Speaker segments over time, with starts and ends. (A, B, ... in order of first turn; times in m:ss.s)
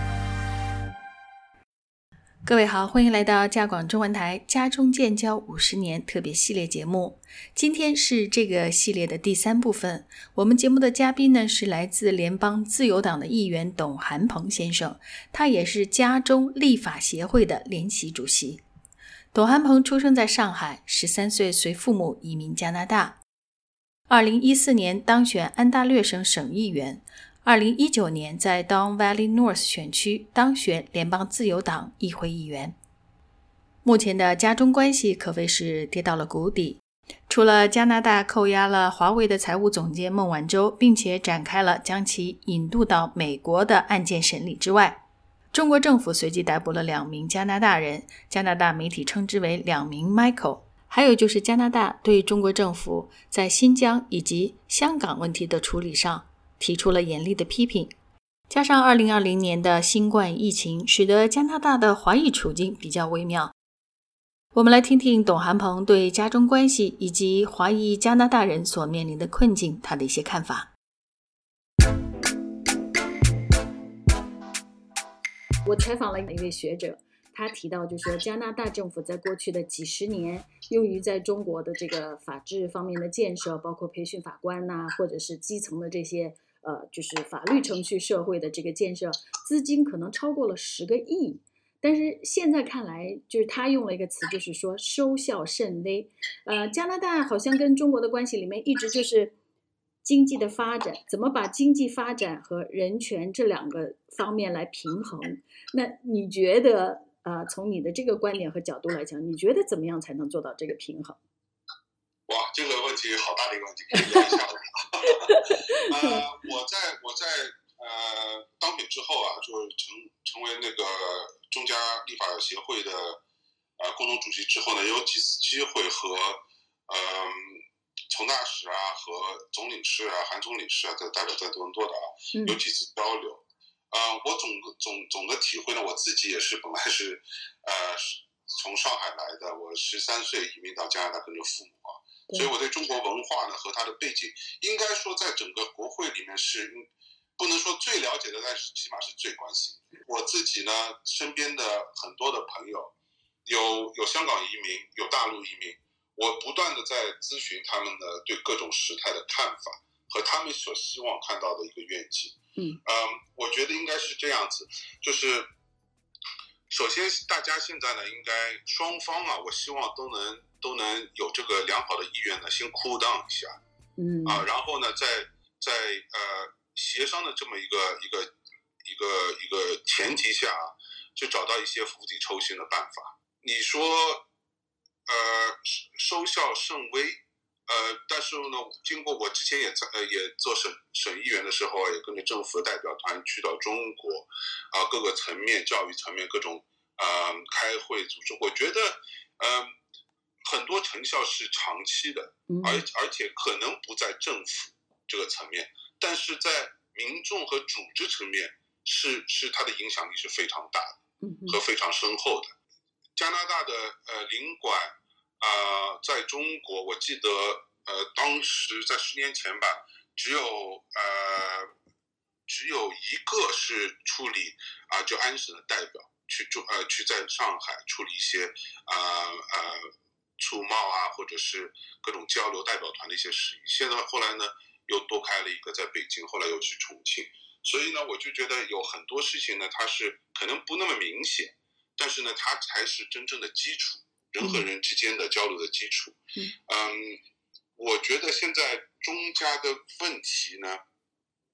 0:02.4-0:18.6 A
0:19.3-0:23.2 A
0:24.1-0:32.8 A
0:33.8-0:58.0 A
0:58.5-1:03.5 A
1:04.5-1:10.7 A
1:15.6-1:39.4 B
1:40.0-1:51.2 B
1:52.3-2:03.2 C
2:03.8-2:33.0 C
2:12.3-2:12.6 B
2:33.5-2:45.5 C
2:46.7-2:53.6 C
2:54.0-2:54.5 B
2:54.3-2:58.3 C
2:58.8-3:04.3 C
3:05.1-3:19.7 C
3:20.4-3:32.5 C
3:22.5-3:22.8 B
3:31.2-3:31.6 B
3:33.2-3:41.7 C
3:42.5-4:07.2 C
4:04.4-4:04.7 B
4:07.8-4:10.8 C